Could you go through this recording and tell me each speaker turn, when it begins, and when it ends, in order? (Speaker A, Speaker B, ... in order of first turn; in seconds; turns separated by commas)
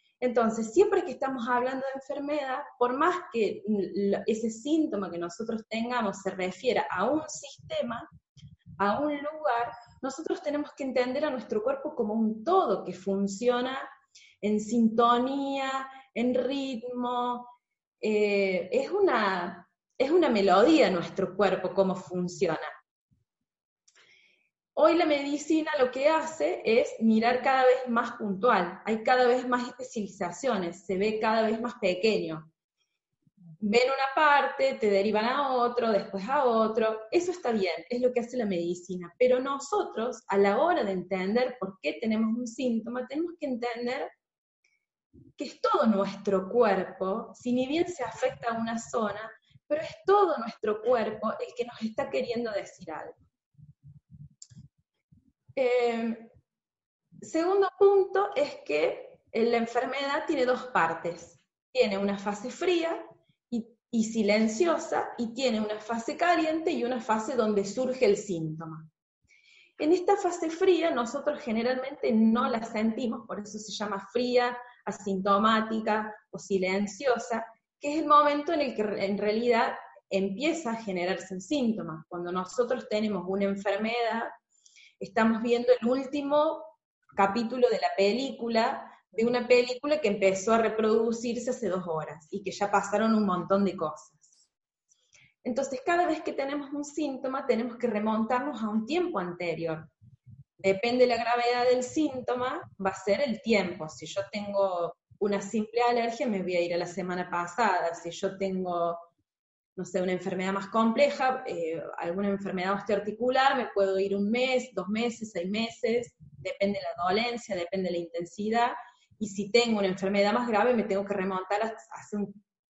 Speaker A: 0.2-8.1, Speaker A: 8.8-13.9, Speaker A: 14.4-17.5, Speaker A: 18.0-22.7, Speaker A: 24.8-32.5, Speaker A: 33.6-44.1, Speaker A: 45.4-53.2, Speaker A: 55.5-56.3, Speaker A: 57.2-68.9, Speaker A: 69.8-84.3, Speaker A: 85.0-94.4, Speaker A: 95.4-99.9, Speaker A: 100.6-109.0, Speaker A: 109.8-122.3